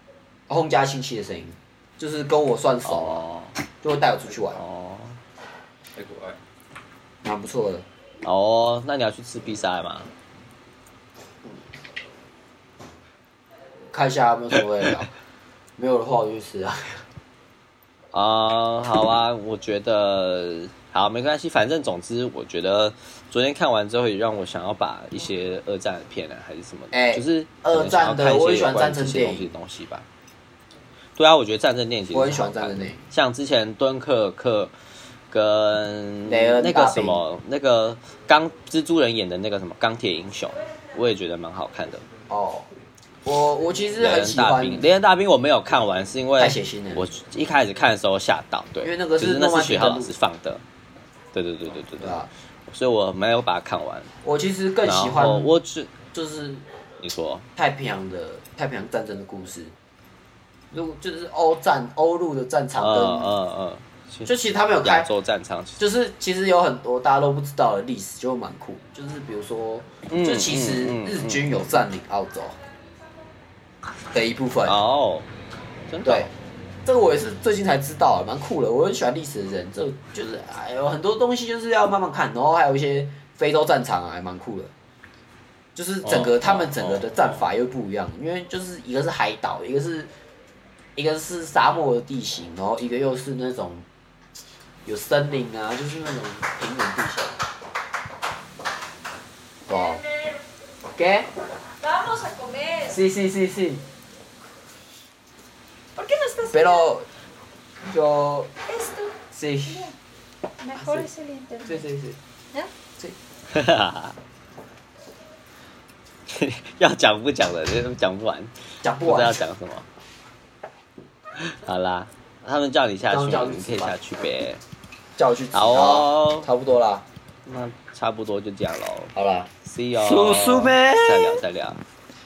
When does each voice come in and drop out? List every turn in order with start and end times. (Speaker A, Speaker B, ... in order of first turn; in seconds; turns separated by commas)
Speaker A: 0.5-3.2, Speaker B: 2.8-3.5, Speaker A: 3.8-4.6, Speaker B: 4.5-5.2, Speaker A: 7.2-7.8, Speaker B: 8.2-10.1, Speaker A: 13.9-15.1, Speaker A: 15.8-17.0, Speaker B: 18.1-30.1, Speaker A: 26.9-29.5, Speaker B: 31.2-34.7, Speaker A: 32.1-33.0, Speaker B: 35.3-42.0, Speaker A: 36.3-37.2, Speaker A: 42.3-42.7, Speaker A: 43.2-44.9, Speaker B: 44.0-50.6, Speaker A: 46.4-47.0, Speaker A: 48.8-50.2, Speaker B: 51.3-54.1, Speaker A: 52.0-52.3, Speaker A: 54.2-55.5, Speaker B: 54.8-56.0, Speaker A: 56.1-56.6, Speaker B: 57.0-57.5, Speaker A: 57.6-59.7, Speaker A: 60.7-63.3, Speaker B: 62.8-65.8, Speaker A: 64.3-65.1, Speaker A: 65.8-72.6, Speaker B: 70.1-71.5, Speaker A: 74.1-74.8, Speaker B: 74.7-75.3, Speaker B: 75.9-76.3, Speaker A: 76.0-76.3, Speaker A: 76.8-84.7, Speaker A: 85.8-90.1, Speaker B: 86.0-87.5, Speaker A: 91.0-93.8, Speaker A: 94.8-97.4, Speaker A: 99.7-100.0, Speaker A: 101.0-101.3, Speaker C: 101.8-103.0, Speaker A: 102.8-103.8, Speaker C: 106.0-106.9, Speaker A: 106.5-107.1, Speaker A: 107.8-108.5, Speaker C: 108.7-109.9, Speaker A: 109.3-109.9, Speaker C: 110.6-111.8, Speaker A: 110.8-111.1, Speaker A: 111.7-112.2, Speaker B: 113.5-114.2, Speaker B: 116.3-119.9, Speaker A: 118.8-119.4, Speaker B: 121.4-124.6, Speaker A: 123.1-124.0, Speaker A: 125.2-127.0, Speaker B: 125.5-126.5, Speaker B: 127.5-131.8, Speaker A: 129.1-131.4